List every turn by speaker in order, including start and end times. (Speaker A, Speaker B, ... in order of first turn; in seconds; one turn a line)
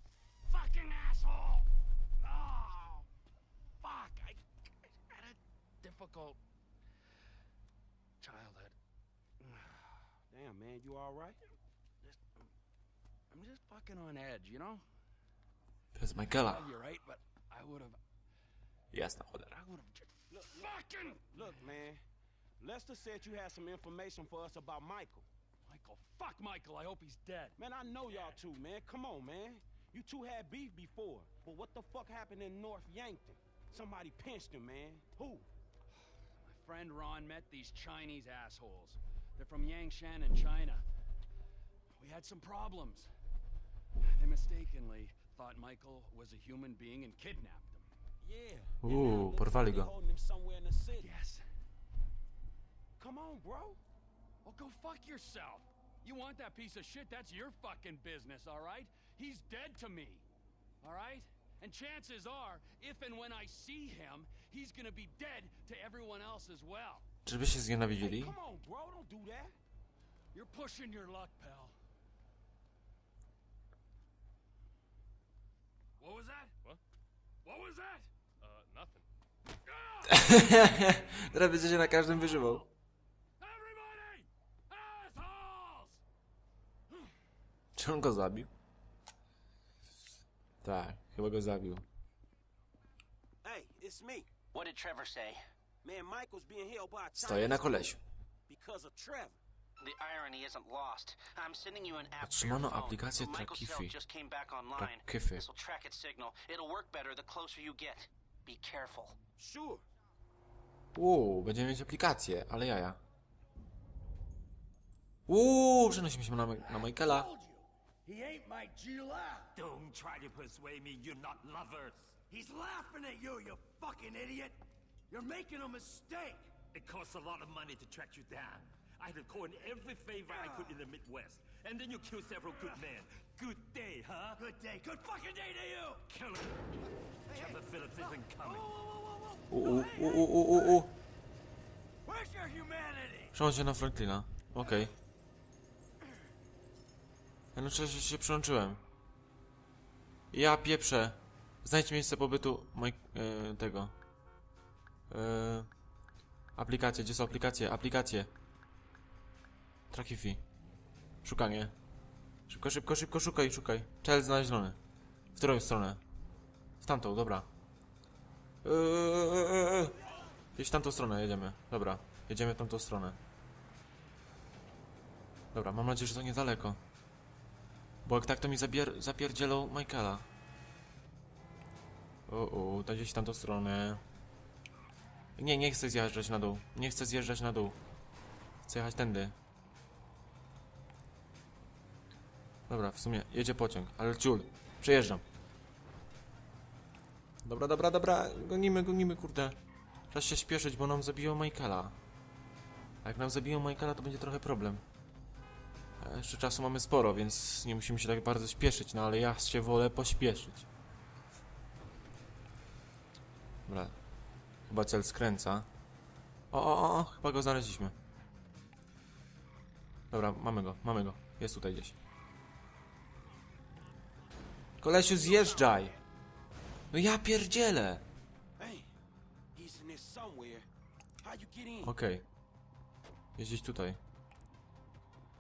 Speaker A: 0.5-1.7
Speaker A: 2.2-3.1
Speaker A: 3.8-6.4
Speaker A: 8.2-8.8
Speaker B: 10.3-11.4
Speaker A: 13.3-14.8
Speaker C: 15.9-16.6
Speaker A: 16.2-18.0
Speaker C: 18.9-19.6
Speaker A: 19.5-21.5
Speaker B: 20.3-22.0
Speaker B: 22.6-25.3
Speaker A: 25.7-28.4
Speaker B: 27.6-35.3
Speaker A: 36.4-40.8
Speaker A: 42.0-43.1
Speaker A: 44.1-47.9
Speaker B: 48.2-51.1
Speaker C: 48.8-49.9
Speaker A: 51.0-51.4
Speaker B: 53.0-53.8
Speaker A: 54.5-60.2
Speaker A: 60.8-67.1
Speaker C: 67.3-68.3
Speaker B: 68.0-69.6
Speaker A: 70.3-71.8
Speaker A: 76.0-76.5
Speaker A: 77.4-78.1
Speaker D: 78.4-79.0
Speaker A: 79.7-81.2
Speaker C: 80.1-82.7
Speaker A: 81.9-82.6
Speaker A: 83.4-86.0
Speaker C: 87.8-88.5
Speaker C: 90.6-91.9
Speaker B: 93.4-94.3
Speaker E: 94.5-95.4
Speaker B: 95.8-97.8
Speaker C: 97.2-98.0
Speaker B: 98.5-99.4
Speaker E: 99.8-109.2
Speaker C: 102.2-104.0
Speaker C: 104.8-105.5
Speaker B: 109.4-109.8
Speaker C: 111.0-113.0
Speaker C: 115.3-117.3
Speaker F: 116.7-119.5
Speaker D: 119.5-122.2
Speaker F: 122.3-124.6
Speaker F: 125.1-126.6
Speaker D: 126.6-134.4
Speaker F: 130.3-130.8
Speaker F: 134.4-136.0
Speaker D: 136.1-136.7
Speaker F: 137.3-140.9
Speaker D: 137.3-138.7
Speaker C: 139.5-140.9
Speaker F: 142.1-143.3
Speaker C: 143.3-144.9
Speaker C: 147.6-148.8
Speaker C: 150.3-153.9
Speaker C: 155.1-155.7
Speaker C: 156.6-158.3
Speaker C: 159.9-160.4
Speaker C: 161.2-161.8
Speaker C: 162.5-164.8
Speaker C: 165.3-166.0
Speaker C: 166.8-167.5
Speaker C: 168.6-170.0
Speaker C: 170.6-173.2
Speaker C: 175.5-176.8
Speaker C: 178.1-180.3
Speaker C: 182.3-184.0
Speaker C: 185.4-187.8
Speaker C: 188.7-189.4
Speaker C: 192.7-195.2
Speaker C: 197.4-199.6
Speaker C: 200.1-202.0
Speaker C: 203.0-204.8
Speaker C: 206.0-210.7
Speaker C: 213.7-214.0
Speaker C: 214.7-215.7
Speaker C: 216.5-218.0
Speaker C: 220.1-222.0
Speaker C: 224.8-226.0
Speaker B: 225.0-226.0
Speaker C: 226.9-228.1
Speaker B: 228.6-228.9
Speaker B: 229.5-230.7
Speaker B: 231.2-231.9
Speaker C: 231.8-232.2
Speaker C: 233.4-234.0